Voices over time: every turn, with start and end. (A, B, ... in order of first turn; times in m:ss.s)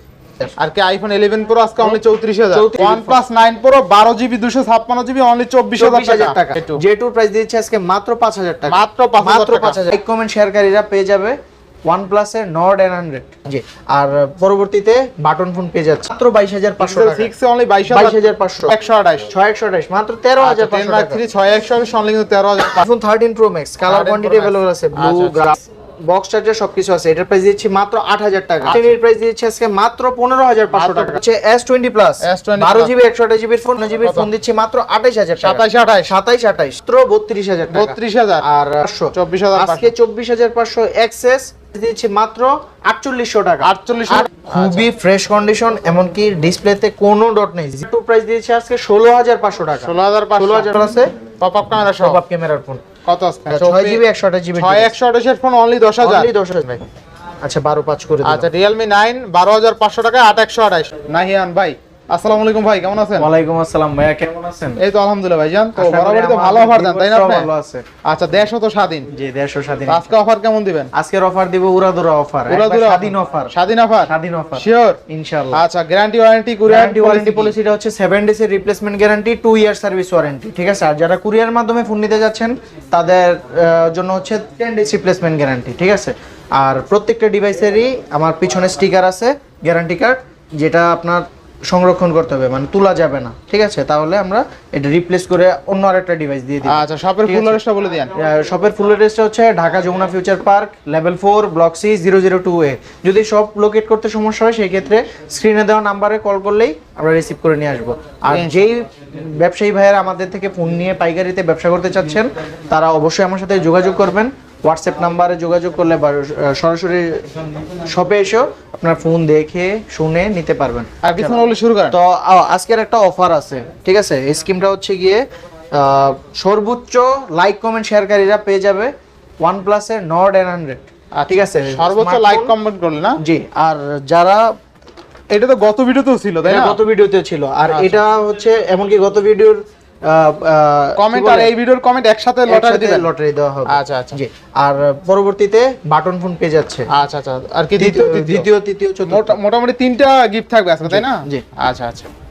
0:00.6-0:06.8 A
0:01.8-0:03.2 B
0:05.8-0:17.3 B
0:08.7-0:09.8 A
0:16.8-0:19.3 A
0:17.9-0:18.8 B
0:19.3-0:21.2 B
0:20.4-0:22.8 A
0:22.8-0:51.1 B
0:23.8-0:25.5 A
0:28.6-0:28.9 A
0:30.7-0:31.2 A
0:32.2-0:32.9 A
0:34.0-0:34.3 A
0:35.4-0:36.1 A
0:37.7-0:38.4 A
0:39.1-0:39.9 A
0:43.6-0:44.9 A
0:49.8-0:50.8 A
0:51.4-0:52.2 A
0:51.9-0:52.8 B
0:53.0-0:54.0 A
0:53.5-0:54.9 B
0:54.6-0:56.8 A
0:56.0-0:56.7 B
0:57.4-0:58.5 B
0:58.2-1:03.3 A
1:03.2-1:04.8 B
1:04.8-1:07.5 A
1:05.8-1:07.8 B
1:08.0-1:09.1 A
1:09.1-1:10.1 B
1:09.9-1:10.9 A
1:10.9-1:13.5 B
1:12.5-1:15.0 A
1:14.1-1:15.6 B
1:15.5-1:17.6 A
1:16.7-1:37.6 B
1:36.6-1:38.1 A
1:38.1-1:57.3 B
1:48.3-1:48.6 A
1:57.9-2:01.4 B
2:01.0-2:02.0 A
2:01.9-2:12.5 B
2:11.1-2:13.2 A
2:13.2-2:14.4 B
2:15.3-2:16.8 A
2:16.4-2:21.5 B
2:17.7-2:18.0 A
2:21.0-2:23.1 A
2:22.5-2:26.9 B
2:23.7-2:24.2 A
2:26.9-2:28.5 A
2:27.8-2:29.4 B
2:29.1-2:32.1 A
2:30.9-2:31.4 B